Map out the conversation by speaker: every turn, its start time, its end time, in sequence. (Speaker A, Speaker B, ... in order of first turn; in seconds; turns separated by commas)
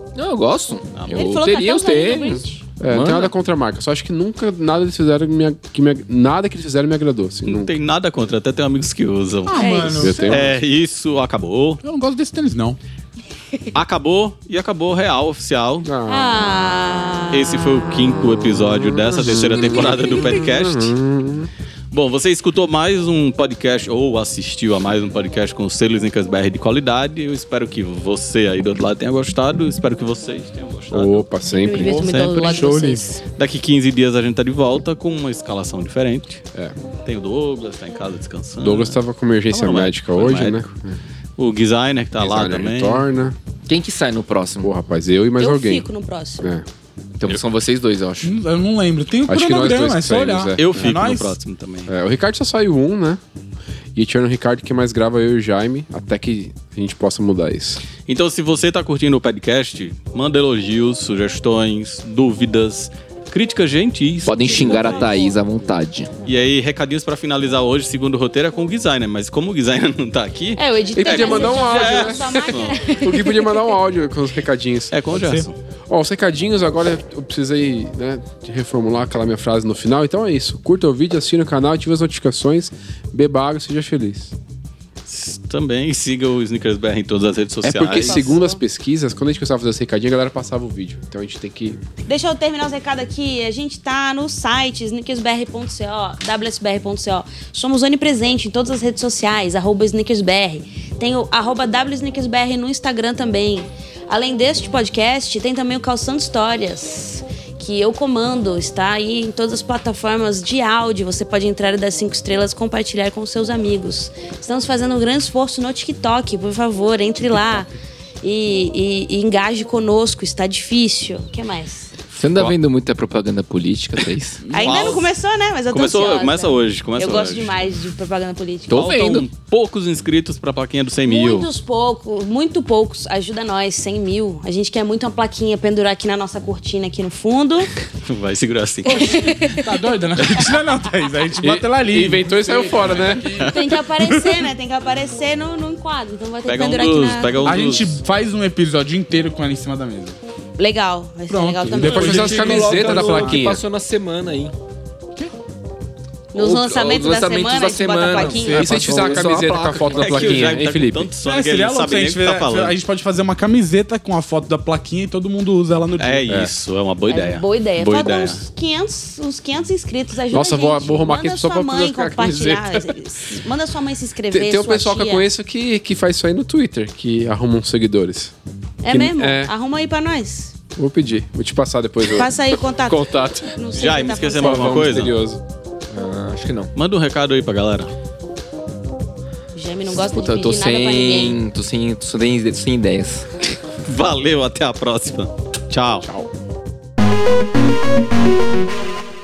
Speaker A: 0.1-3.3, Speaker B: 0.9-1.3, Speaker C: 1.1-2.6, Speaker D: 2.3-7.7, Speaker B: 7.5-11.8, Speaker E: 9.4-10.3, Speaker C: 9.6-10.4, Speaker D: 10.0-10.6, Speaker E: 11.8-12.8, Speaker B: 13.7-15.9, Speaker D: 15.8-16.4, Speaker C: 16.1-18.4, Speaker B: 17.3-20.9, Speaker D: 18.6-21.5, Speaker C: 19.8-20.4, Speaker B: 21.9-31.3, Speaker D: 30.9-32.9, Speaker C: 31.5-33.2, Speaker B: 31.8-36.4, Speaker E: 32.5-32.9, Speaker B: 37.0-39.0, Speaker D: 38.6-41.0, Speaker B: 39.5-40.6, Speaker B: 41.4-43.0, Speaker D: 42.2-43.4, Speaker A: 43.7-44.7, Speaker D: 44.6-45.9, Speaker C: 45.4-46.5, Speaker D: 46.4-46.6, Speaker A: 47.2-48.3, Speaker E: 48.2-51.4, Speaker D: 49.3-51.0, Speaker B: 50.6-51.9, Speaker D: 51.9-53.2, Speaker D: 54.0-57.8, Speaker B: 58.0-65.1, Speaker A: 64.2-66.1, Speaker C: 64.4-65.4, Speaker B: 66.2-72.8, Speaker C: 70.5-73.8, Speaker D: 70.9-74.9, Speaker B: 74.9-75.5, Speaker E: 75.2-75.5, Speaker D: 75.9-84.3, Speaker B: 85.0-88.3, Speaker D: 87.6-91.8, Speaker C: 87.9-88.6, Speaker C: 92.0-117.7, Speaker C: 118.2-121.9, Speaker A: 122.1-124.4, Speaker E: 124.4-125.0, Speaker C: 124.5-129.2, Speaker B: 124.5-125.1, Speaker B: 125.7-127.5, Speaker A: 128.7-129.2, Speaker B: 128.7-131.5, Speaker C: 131.1-137.7, Speaker B: 138.0-139.3, Speaker C: 138.8-139.8, Speaker E: 138.9-144.4, Speaker D: 141.4-143.5, Speaker C: 143.3-147.4, Speaker B: 146.5-148.0, Speaker E: 147.4-150.2, Speaker C: 150.6-152.3, Speaker E: 151.3-153.5, Speaker D: 151.8-153.6, Speaker A: 151.8-154.5, Speaker C: 156.3-158.7, Speaker A: 156.3-160.6, Speaker E: 158.4-159.4, Speaker D: 158.5-161.1, Speaker B: 159.9-162.8, Speaker E: 161.2-166.3, Speaker B: 166.0-168.4, Speaker C: 167.1-175.3, Speaker D: 170.3-173.0, Speaker D: 174.3-178.3, Speaker C: 178.8-180.5, Speaker D: 178.9-179.5, Speaker D: 180.8-183.5, Speaker C: 182.1-185.0, Speaker B: 183.7-185.2, Speaker D: 184.3-185.4, Speaker A: 185.9-186.7, Speaker B: 186.8-187.9, Speaker C: 189.5-191.4, Speaker A: 189.9-193.3, Speaker B: 193.8-196.1